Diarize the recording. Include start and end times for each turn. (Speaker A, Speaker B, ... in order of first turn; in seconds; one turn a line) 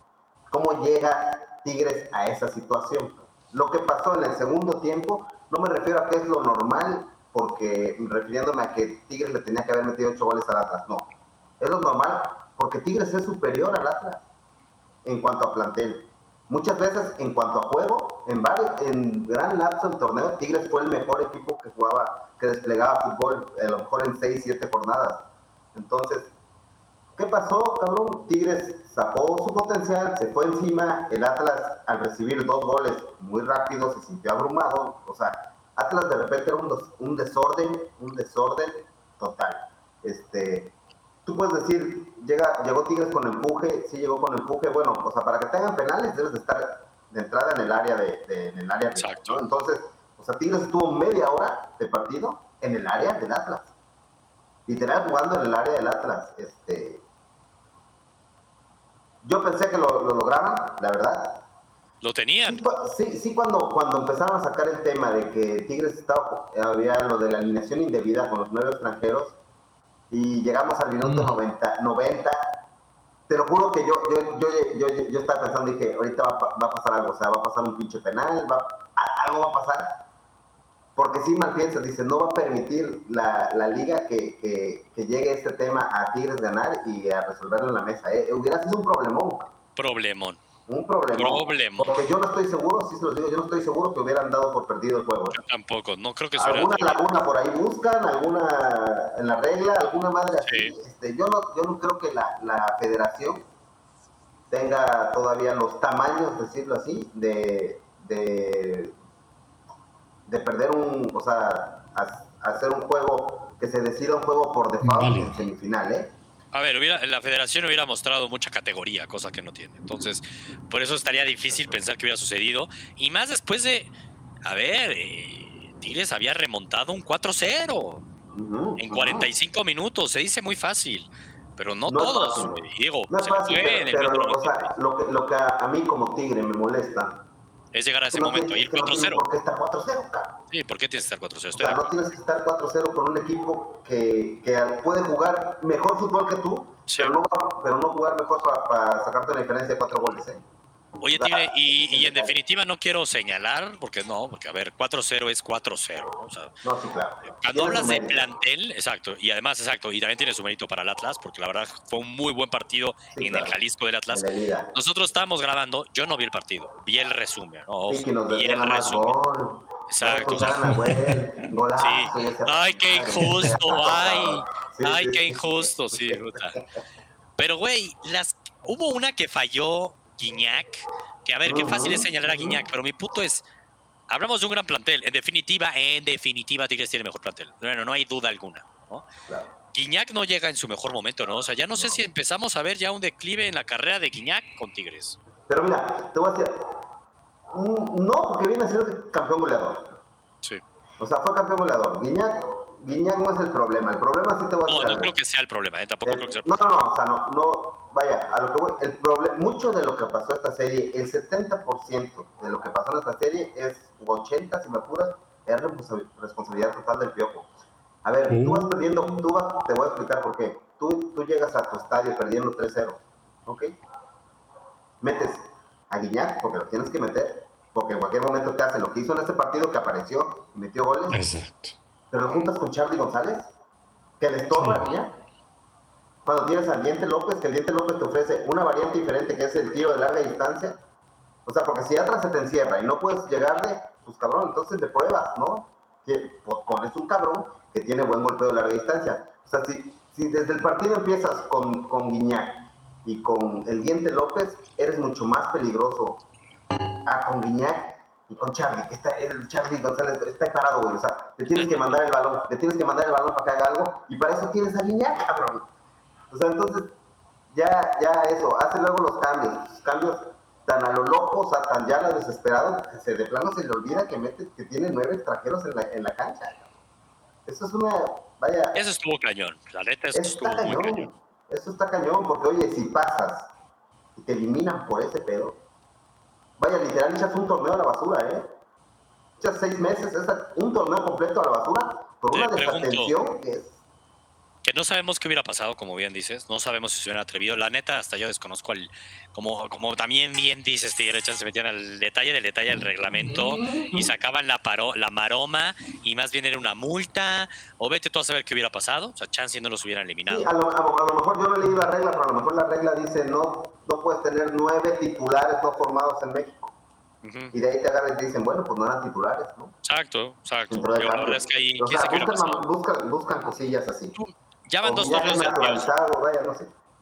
Speaker A: 0.5-14.2
Speaker A: 15.0-26.3
Speaker A: 27.1-53.7
Speaker B: 49.0-49.4
Speaker A: 54.7-57.0
Speaker A: 59.2-61.4
Speaker B: 62.0-62.6
Speaker A: 62.5-69.4
Speaker A: 70.1-72.6
Speaker C: 71.0-71.3
Speaker A: 73.3-80.1
Speaker A: 81.0-89.5
Speaker B: 89.8-90.4
Speaker A: 90.7-95.4
Speaker B: 91.2-92.0
Speaker B: 95.3-97.1
Speaker A: 96.4-103.5
Speaker B: 100.4-100.7
Speaker A: 104.5-108.9
Speaker A: 110.3-116.1
Speaker C: 114.8-115.4
Speaker B: 116.5-123.9
Speaker B: 124.4-128.0
Speaker A: 128.3-129.3
Speaker B: 128.8-134.7
Speaker A: 131.9-137.2
Speaker B: 137.7-139.2
Speaker A: 138.1-140.4
Speaker B: 140.5-141.9
Speaker A: 141.5-150.4
Speaker B: 146.9-147.1
Speaker B: 151.0-156.5
Speaker A: 151.1-152.3
Speaker A: 156.6-158.4
Speaker B: 157.2-169.2
Speaker A: 163.1-163.6
Speaker A: 164.1-164.7
Speaker A: 167.9-176.7
Speaker B: 169.9-170.8
Speaker C: 170.4-171.2
Speaker B: 171.8-176.6
Speaker C: 173.2-173.5
Speaker B: 177.4-183.4
Speaker A: 181.4-182.6
Speaker B: 184.1-189.0
Speaker B: 189.7-195.2
Speaker A: 191.8-192.0
Speaker A: 195.5-196.8
Speaker A: 197.5-200.0
Speaker A: 201.0-205.1
Speaker B: 204.7-206.8
Speaker A: 206.0-217.5
Speaker A: 218.0-223.7
Speaker C: 218.3-218.7
Speaker A: 225.0-231.2
Speaker C: 231.1-231.8
Speaker A: 232.1-233.5
Speaker A: 234.2-235.2
Speaker C: 234.5-234.9
Speaker A: 236.2-240.8
Speaker A: 241.4-256.2
Speaker A: 257.0-265.7
Speaker A: 266.3-266.9
Speaker A: 267.5-276.7
Speaker A: 277.4-278.8
Speaker B: 278.7-281.1
Speaker A: 280.1-283.5
Speaker A: 284.1-285.6
Speaker A: 286.6-288.5
Speaker A: 289.4-293.7
Speaker B: 292.3-293.1
Speaker B: 294.6-310.5
Speaker A: 303.2-304.1
Speaker A: 310.3-316.7
Speaker B: 317.2-317.5
Speaker A: 317.5-319.8
Speaker B: 319.8-322.6
Speaker A: 320.7-324.2
Speaker B: 324.1-325.9
Speaker A: 324.8-326.7